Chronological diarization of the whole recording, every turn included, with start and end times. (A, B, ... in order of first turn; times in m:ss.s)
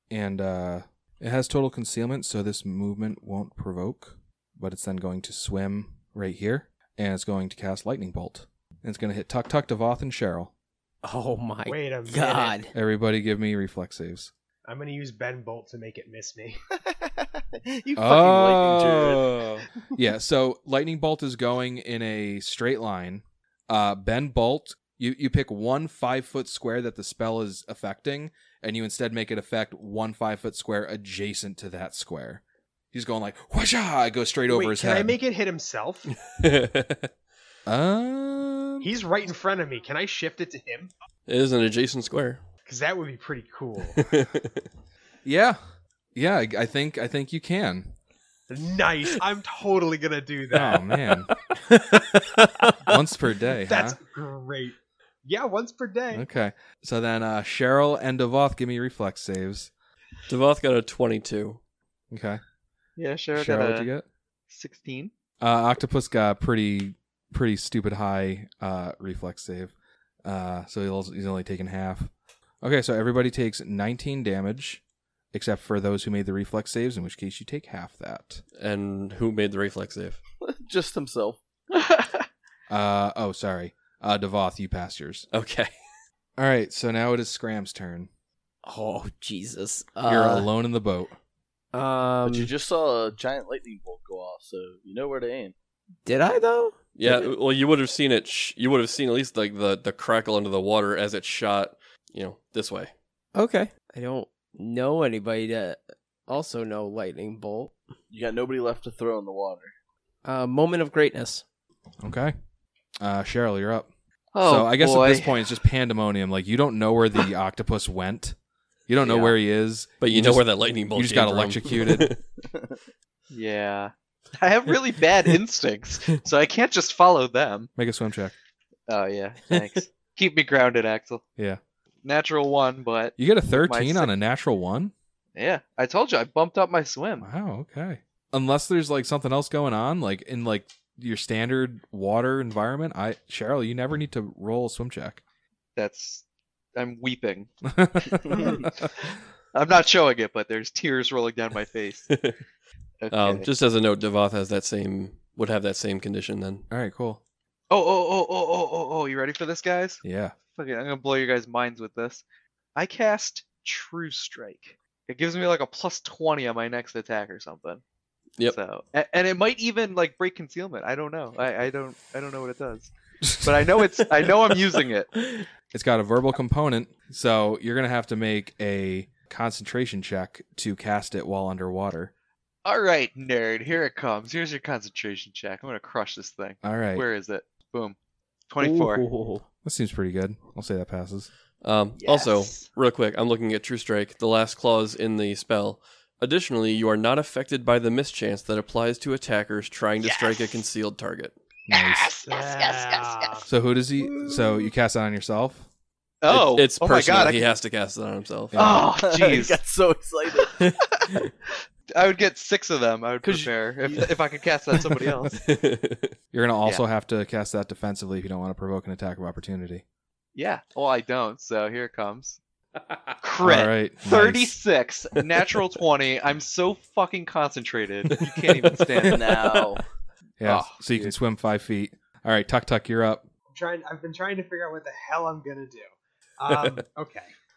0:00.1-0:10.5 A
0:11.0-0:12.7 B
0:11.7-0:12.6 C
0:12.7-0:14.3 A
0:14.6-0:16.6 C
0:17.6-0:19.4 D
0:17.9-0:35.2 A
0:34.5-0:36.1 C
0:36.2-0:37.1 E
0:37.7-0:38.9 A
0:38.8-0:40.9 C
0:41.3-0:42.4 E
0:42.6-0:44.0 C
0:43.9-0:44.6 E
0:45.2-0:45.6 A
0:46.1-0:48.0 A
0:48.5-0:51.0 C
0:50.5-0:51.3 A
0:51.7-0:52.7 B
0:52.8-0:54.0 A
0:53.7-0:56.2 C
0:56.1-0:59.7 A
1:00.3-1:01.6 E
1:02.1-1:02.4 A
1:03.0-1:03.9 F
1:03.3-1:04.1 A
1:04.5-1:05.1 F
1:05.4-1:09.7 A
1:10.2-1:18.4 A
1:18.6-1:20.2 E
1:20.4-1:21.4 D
1:21.7-1:22.2 F
1:22.7-1:25.3 A
1:25.3-1:25.7 E
1:26.4-1:28.1 A
1:28.6-1:30.5 B
1:30.0-1:31.2 A
1:31.7-1:32.5 B
1:32.2-1:35.5 D
1:36.0-1:37.3 B
1:37.0-1:42.9 E
1:43.3-1:47.7 B
1:48.1-1:49.7 D
1:50.2-1:51.4 B
1:52.0-1:52.3 A
1:53.0-1:53.9 A
1:54.3-1:55.4 F
1:54.4-1:58.4 A
1:58.9-2:02.1 A
1:59.0-1:59.3 F
2:00.0-2:02.2 E
2:02.4-2:02.8 D
2:03.3-2:07.7 F
2:07.8-2:08.3 A
2:08.9-2:11.2 F
2:12.0-2:14.1 F
2:13.2-2:14.9 A
2:15.4-2:17.3 F
2:17.2-2:25.2 A
2:25.8-2:26.2 F
2:26.7-2:28.9 F
2:27.6-2:28.4 A
2:29.5-2:32.1 F
2:32.1-2:32.4 E
2:33.0-2:33.5 F
2:33.1-2:36.6 E
2:36.7-2:37.2 A
2:37.7-2:40.0 F
2:40.0-2:40.3 A
2:40.5-2:42.2 F
2:42.8-2:47.8 F
2:48.4-2:52.9 F
2:53.4-2:55.1 F
2:55.7-3:02.1 A
3:02.6-3:08.0 F
3:06.6-3:07.0 A
3:08.5-3:09.0 F
3:08.6-3:09.4 B
3:09.6-3:11.3 A
3:11.6-3:21.3 E
3:12.0-3:12.7 F
3:20.0-3:20.6 F
3:21.7-3:22.1 A
3:21.7-3:23.4 F
3:22.2-3:23.4 C
3:23.4-3:25.7 A
3:26.2-3:27.4 F
3:26.3-3:28.6 E
3:28.5-3:28.8 A
3:28.5-3:29.6 F
3:28.8-3:30.7 D
3:31.9-3:35.4 F
3:33.2-3:34.1 D
3:35.3-3:36.1 E
3:36.3-3:39.8 A
3:40.3-3:42.4 F
3:43.2-3:49.5 F
3:43.4-3:44.6 A
3:49.0-3:49.8 D
3:50.4-3:53.3 A
3:53.5-3:57.3 C